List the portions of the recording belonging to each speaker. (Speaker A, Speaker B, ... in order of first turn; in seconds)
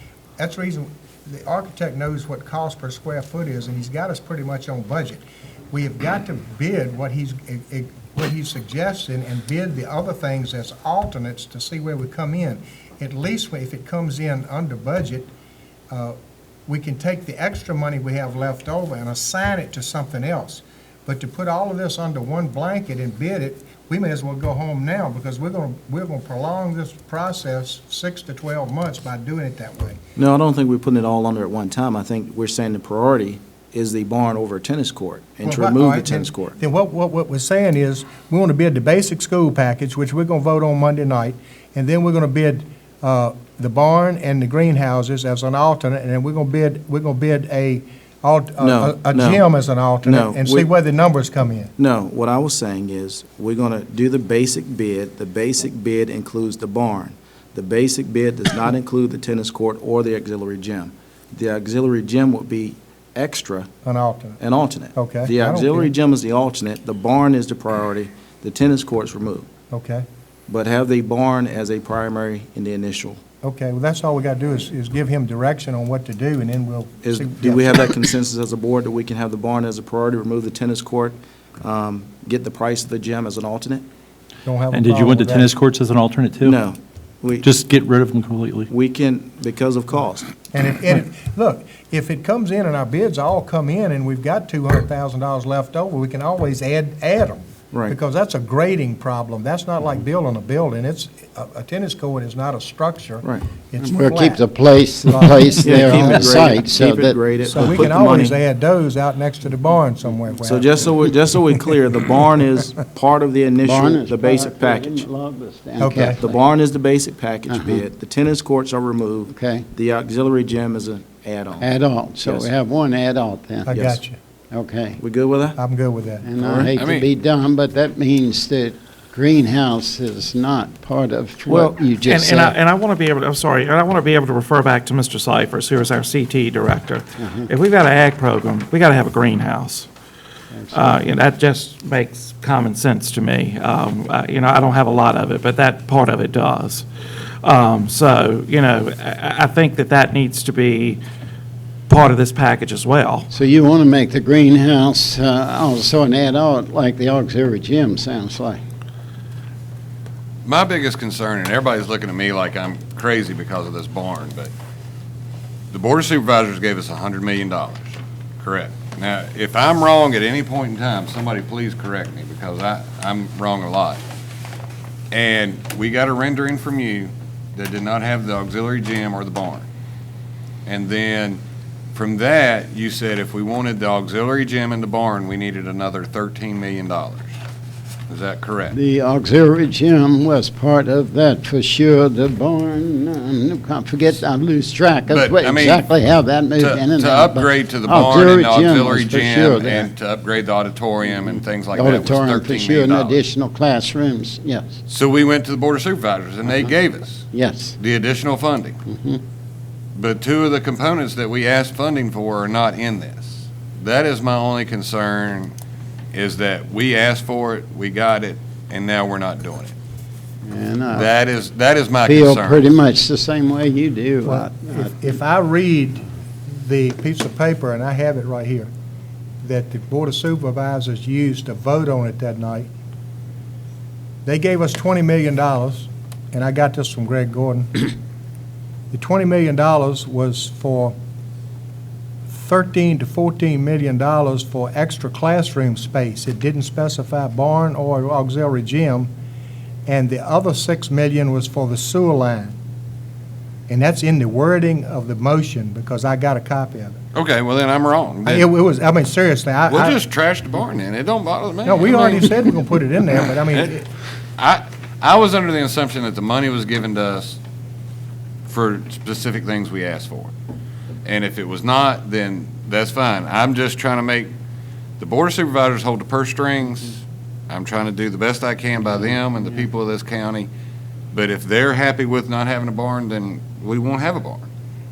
Speaker A: 0.4-15.3, 15.9-30.0, 35.4-51.7, 63.8-64.4, 64.9-65.9, 69.7-70.0, 73.4-77.9, 84.4-85.5, 90.5-104.4, 105.1-106.3, 107.5-110.9, 115.8-116.2, 123.7-124.2, 125.5-126.2, 224.2-228.7, 229.4-232.7, 234.2-237.9, 238.9-240.9, 242.3-249.1, 249.8-252.5, 253.7-257.0, 258.2-260.0, 261.6-263.9
Speaker B: 30.1-36.6, 48.6-49.5, 50.0-50.7, 51.8-63.7, 64.4-69.5, 70.5-73.2, 77.0-83.8, 86.4-87.6, 88.7-90.3, 105.6-108.4, 110.4-115.1, 116.1-122.5, 125.0-125.6, 126.4-126.7
Speaker C: 84.7-86.5, 87.4-88.7
Speaker D: 103.8-107.8, 113.6-116.4, 117.5-117.8, 119.3-119.7, 121.6-125.0, 126.2-132.6, 137.2-137.5, 140.5-141.0, 153.3-158.6, 188.7-199.9, 201.7-204.8, 207.3-207.8, 208.9-209.2, 220.4-221.1, 222.0-224.9
Speaker E: 126.7-127.1, 160.4-164.5, 165.7-174.0, 175.1-179.7, 180.7-181.4, 181.9-187.3, 188.1-188.7, 195.1-195.8, 196.6-203.2, 204.9-207.3, 207.8-208.8, 209.9-215.5, 216.1-219.7, 220.9-222.6, 257.1-258.5, 259.7-262.4, 264.4-267.4, 268.4-270.3, 271.0-274.3, 275.0-280.5, 281.1-284.4
Speaker F: 131.5-139.9, 140.7-146.9, 147.4-151.0, 151.9-153.3